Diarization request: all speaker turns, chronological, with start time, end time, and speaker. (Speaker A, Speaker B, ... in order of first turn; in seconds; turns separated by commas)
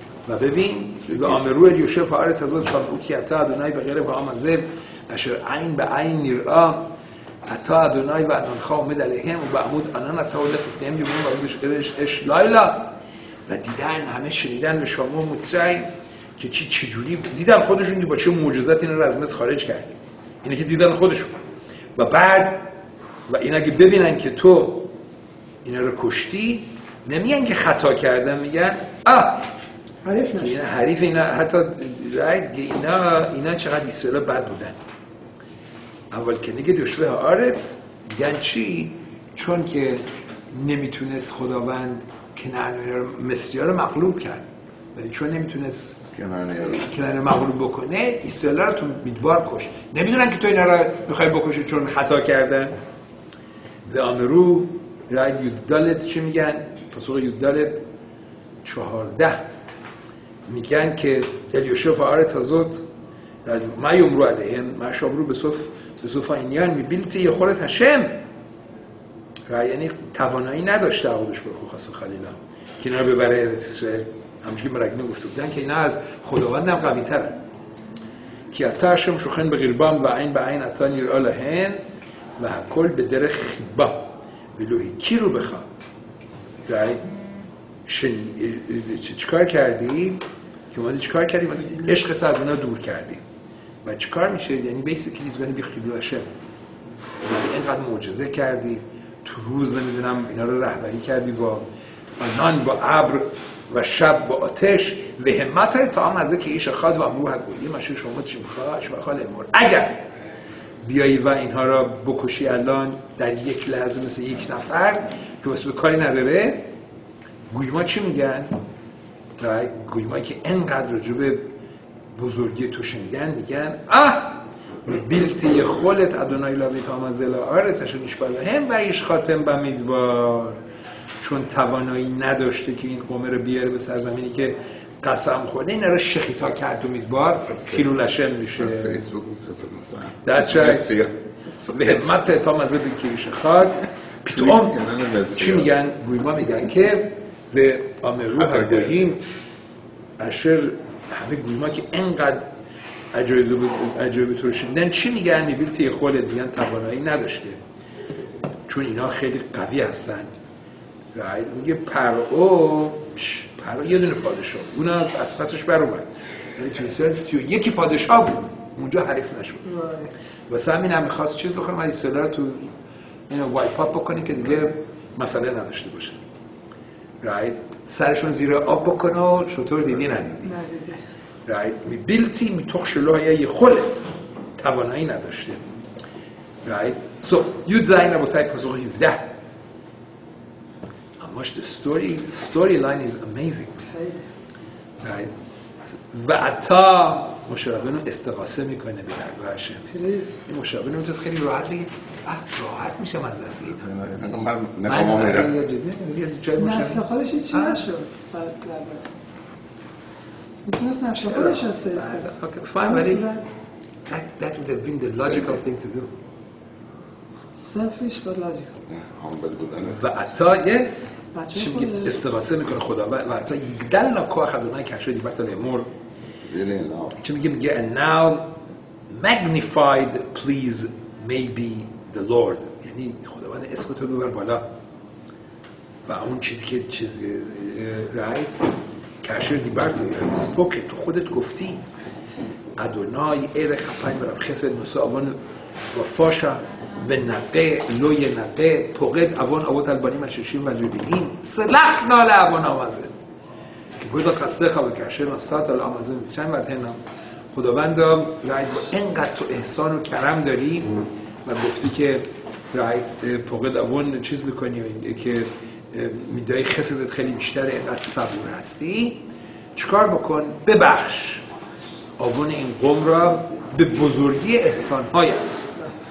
Speaker A: 0.3-6.9, Speaker A: 7.5-13.0, Speaker A: 13.5-21.4, Speaker A: 22.0-22.7, Speaker A: 23.3-24.9, Speaker A: 25.6-29.5, Speaker B: 30.1-30.6, Speaker A: 30.4-34.8, Speaker A: 36.1-46.0, Speaker C: 46.1-46.9, Speaker A: 46.6-52.8, Speaker A: 53.9-57.8, Speaker A: 58.6-59.5, Speaker A: 60.5-62.8, Speaker A: 63.5-68.2, Speaker A: 69.5-77.4, Speaker A: 78.5-81.8, Speaker A: 82.4-85.7, Speaker A: 86.7-87.1, Speaker A: 87.9-93.2, Speaker A: 93.8-96.3, Speaker A: 97.2-101.7, Speaker A: 102.2-110.0, Speaker A: 110.8-116.7, Speaker A: 117.5-118.5, Speaker A: 119.4-121.5, Speaker A: 122.2-130.6, Speaker A: 131.2-139.1, Speaker C: 138.6-141.1, Speaker A: 140.0-140.9, Speaker A: 141.6-149.2, Speaker C: 141.6-142.2, Speaker C: 144.3-145.7, Speaker C: 148.4-149.1, Speaker A: 150.2-152.5, Speaker A: 153.1-157.6, Speaker A: 158.7-160.3, Speaker A: 161.2-169.7, Speaker B: 169.7-170.1, Speaker A: 170.5-172.7, Speaker A: 173.3-176.2, Speaker A: 177.2-180.6, Speaker B: 180.5-181.0, Speaker A: 181.5-184.0, Speaker A: 184.6-185.7, Speaker A: 186.7-189.3, Speaker A: 191.2-193.8, Speaker B: 193.8-194.2, Speaker A: 195.0-195.3, Speaker A: 195.8-199.9, Speaker B: 199.9-200.4, Speaker A: 200.5-203.8, Speaker C: 203.7-205.5, Speaker A: 204.9-207.8, Speaker B: 206.6-209.1, Speaker B: 210.7-212.3, Speaker A: 211.1-213.3, Speaker B: 212.8-213.5, Speaker A: 214.1-216.1, Speaker B: 217.6-218.8, Speaker C: 218.9-220.2, Speaker A: 219.9-225.9, Speaker B: 221.3-222.2, Speaker C: 226.4-227.2, Speaker A: 227.2-228.6, Speaker A: 229.1-234.7, Speaker A: 236.1-238.7, Speaker A: 239.2-241.8, Speaker A: 242.8-245.4, Speaker A: 245.9-253.1, Speaker A: 254.0-257.0, Speaker A: 257.5-271.4, Speaker A: 272.2-275.6